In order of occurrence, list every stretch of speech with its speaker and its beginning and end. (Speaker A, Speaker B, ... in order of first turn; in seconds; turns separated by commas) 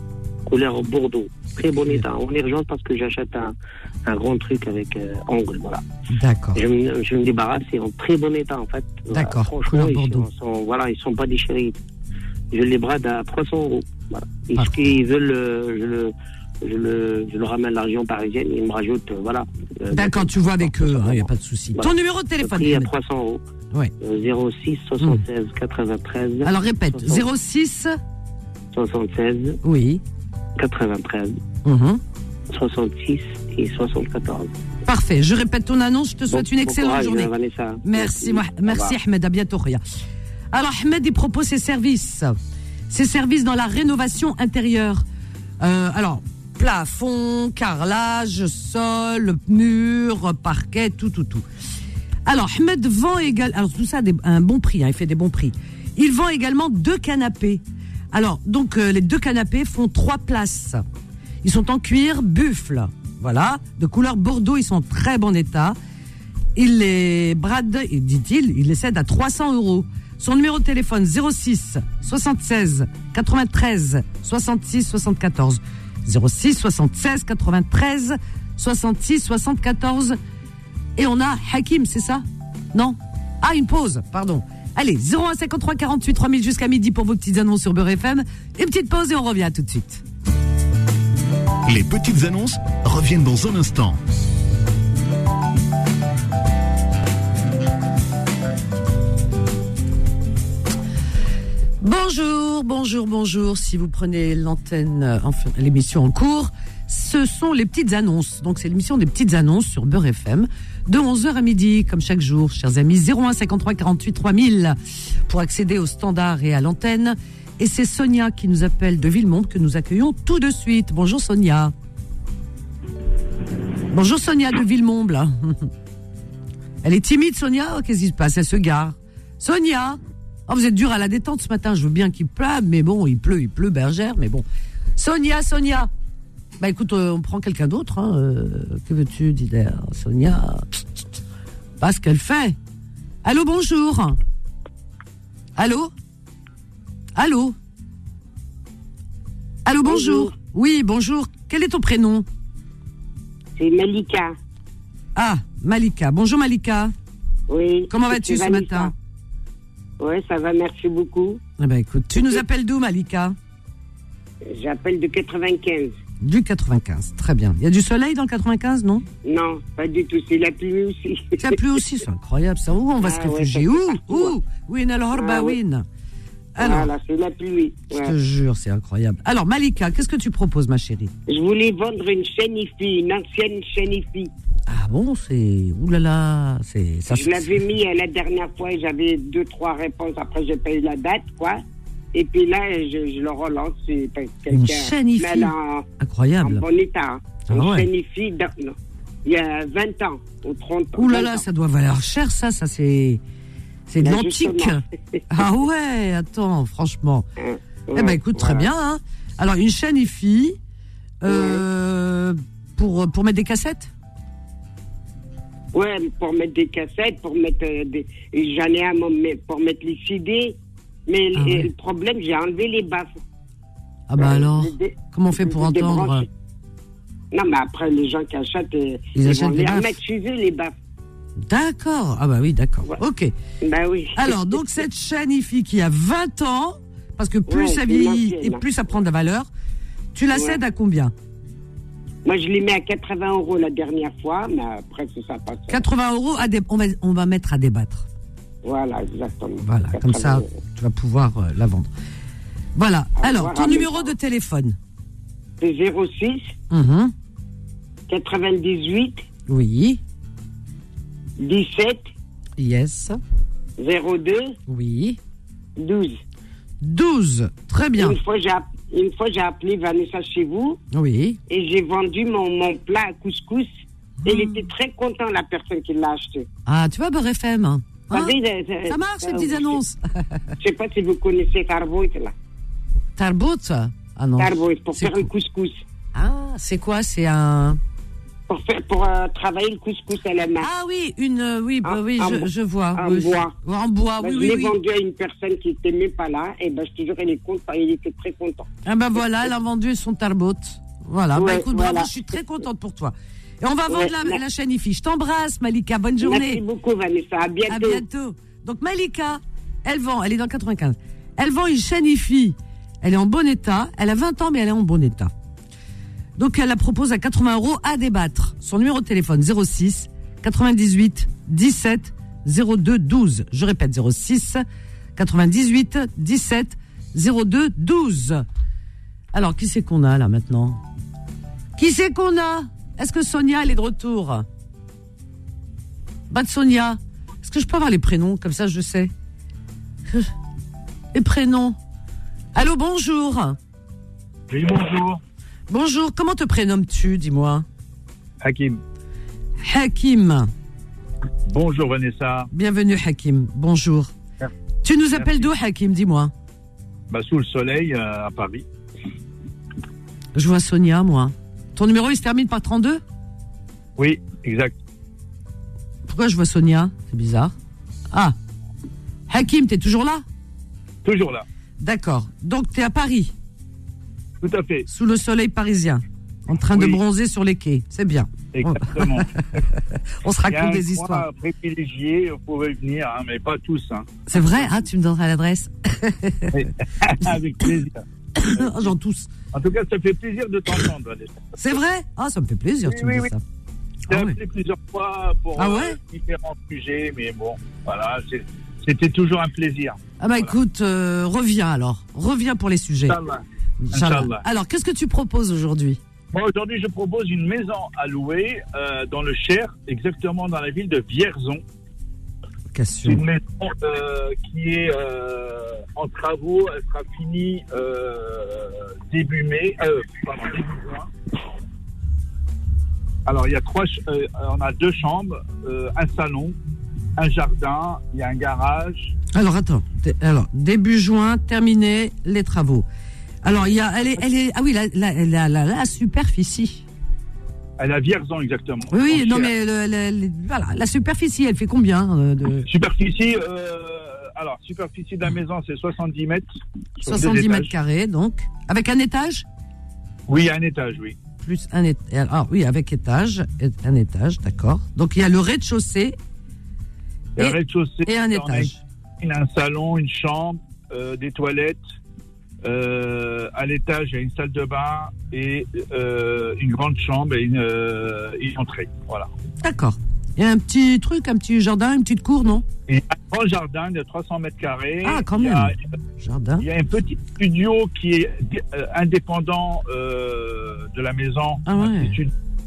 Speaker A: 0.5-3.5, Speaker A: 4.1-5.8, Speaker B: 6.1-6.6, Speaker A: 6.5-11.8, Speaker B: 9.1-10.3, Speaker A: 12.5-23.4, Speaker B: 14.5-15.0, Speaker B: 19.9-22.9, Speaker A: 24.0-27.3, Speaker B: 26.4-28.0, Speaker A: 28.7-29.6, Speaker B: 29.6-30.0, Speaker A: 30.6-31.4, Speaker B: 31.6-32.0, Speaker A: 32.5-34.5, Speaker B: 34.9-37.3, Speaker A: 36.3-39.0, Speaker B: 37.8-39.8, Speaker B: 40.5-42.4, Speaker B: 42.9-45.0, Speaker B: 45.6-51.4, Speaker B: 52.2-60.8, Speaker B: 61.4-65.8, Speaker B: 66.5-80.2, Speaker B: 81.0-90.0, Speaker C: 91.7-94.0, Speaker B: 101.8-121.7, Speaker B: 123.9-125.7, Speaker B: 126.8-134.4, Speaker B: 135.0-135.9, Speaker B: 136.6-140.6, Speaker B: 141.8-142.6, Speaker B: 143.2-144.2, Speaker B: 145.6-145.9, Speaker B: 147.1-147.6, Speaker B: 149.6-152.2, Speaker D: 149.8-150.3, Speaker D: 153.6-154.4, Speaker B: 155.1-156.9, Speaker D: 157.5-158.9, Speaker B: 157.9-158.9, Speaker D: 160.0-161.4, Speaker B: 161.6-163.4, Speaker D: 164.4-166.0, Speaker B: 166.2-169.0, Speaker D: 169.2-171.6, Speaker B: 171.4-175.8, Speaker D: 173.0-174.3, Speaker D: 175.1-175.6, Speaker B: 176.6-176.9, Speaker D: 176.6-178.1, Speaker B: 177.9-181.1, Speaker D: 181.3-184.3, Speaker B: 184.7-187.6, Speaker D: 187.1-191.6, Speaker D: 192.1-195.9, Speaker B: 194.5-196.6, Speaker D: 196.4-201.4, Speaker B: 197.5-197.9, Speaker B: 201.0-203.2, Speaker B: 203.9-207.2, Speaker D: 204.0-205.2, Speaker D: 207.4-208.7, Speaker B: 207.9-210.6, Speaker B: 211.2-213.9, Speaker D: 211.2-211.6, Speaker D: 215.7-223.1, Speaker B: 221.3-221.7, Speaker B: 224.1-226.2, Speaker D: 224.2-226.3, Speaker D: 227.3-230.8, Speaker B: 229.1-230.0, Speaker B: 231.4-233.3, Speaker D: 233.6-234.6, Speaker B: 234.2-239.5, Speaker D: 237.5-238.6, Speaker B: 240.1-241.1, Speaker D: 240.3-240.6, Speaker D: 242.2-245.8, Speaker B: 245.7-248.1, Speaker D: 248.6-250.5, Speaker B: 249.6-251.9, Speaker B: 252.8-254.8, Speaker D: 253.2-254.1, Speaker D: 255.6-256.5, Speaker B: 256.7-257.1, Speaker D: 258.1-259.2, Speaker B: 259.5-260.0, Speaker D: 261.4-262.1, Speaker B: 262.6-263.2, Speaker D: 263.8-264.6, Speaker B: 264.7-265.2, Speaker D: 265.8-266.2, Speaker B: 266.8-268.2, Speaker D: 268.0-270.8, Speaker B: 270.9-271.4, Speaker D: 271.5-276.5, Speaker B: 274.2-274.6, Speaker B: 276.6-280.2, Speaker D: 278.1-279.8, Speaker D: 280.6-282.3, Speaker B: 283.2-285.3, Speaker D: 284.4-285.8, Speaker B: 286.1-287.8, Speaker D: 288.5-290.7, Speaker B: 290.6-294.8, Speaker D: 291.8-293.5, Speaker D: 294.2-299.5, Speaker B: 298.9-306.6, Speaker D: 301.4-302.1, Speaker D: 303.9-304.4, Speaker D: 306.2-308.0, Speaker B: 307.7-315.3, Speaker B: 316.4-324.6, Speaker B: 325.1-328.4, Speaker B: 329.3-330.8, Speaker B: 331.8-334.4, Speaker B: 336.3-339.1, Speaker B: 341.1-341.8, Speaker B: 342.6-343.6, Speaker E: 344.5-345.2, Speaker B: 345.7-347.6, Speaker E: 348.4-348.8, Speaker B: 349.6-350.5, Speaker E: 351.5-352.5, Speaker B: 352.5-354.1, Speaker B: 354.8-356.3, Speaker E: 355.1-355.5, Speaker E: 357.1-358.6, Speaker B: 360.4-363.0, Speaker E: 364.0-364.8, Speaker B: 366.1-367.5, Speaker B: 369.3-370.2, Speaker E: 371.0-371.4, Speaker B: 371.8-373.3, Speaker E: 374.4-374.9, Speaker B: 374.9-379.4, Speaker E: 376.7-377.0, Speaker E: 378.5-379.3, Speaker B: 380.2-381.2, Speaker E: 380.5-384.7, Speaker B: 384.3-386.6, Speaker E: 386.5-388.9, Speaker B: 388.4-389.3, Speaker E: 389.5-391.8, Speaker B: 391.6-393.4, Speaker E: 392.9-393.3, Speaker E: 394.1-400.5, Speaker B: 394.1-394.4, Speaker B: 395.6-396.0, Speaker B: 400.2-403.2, Speaker E: 403.1-404.4, Speaker B: 403.8-406.0, Speaker E: 406.3-411.6, Speaker B: 412.7-413.2, Speaker E: 413.1-421.1, Speaker E: 423.2-426.6, Speaker E: 427.2-429.1, Speaker B: 429.3-432.9, Speaker B: 433.4-436.9, Speaker E: 437.8-439.5, Speaker B: 438.9-442.7, Speaker E: 442.7-446.5, Speaker E: 447.0-447.7, Speaker B: 447.1-449.4, Speaker E: 450.3-451.1, Speaker B: 451.4-456.1, Speaker E: 457.4-461.8, Speaker B: 457.4-458.8, Speaker E: 462.6-469.3, Speaker B: 469.6-472.6, Speaker E: 472.9-475.7, Speaker B: 475.0-476.6, Speaker E: 476.6-482.3, Speaker B: 481.6-482.2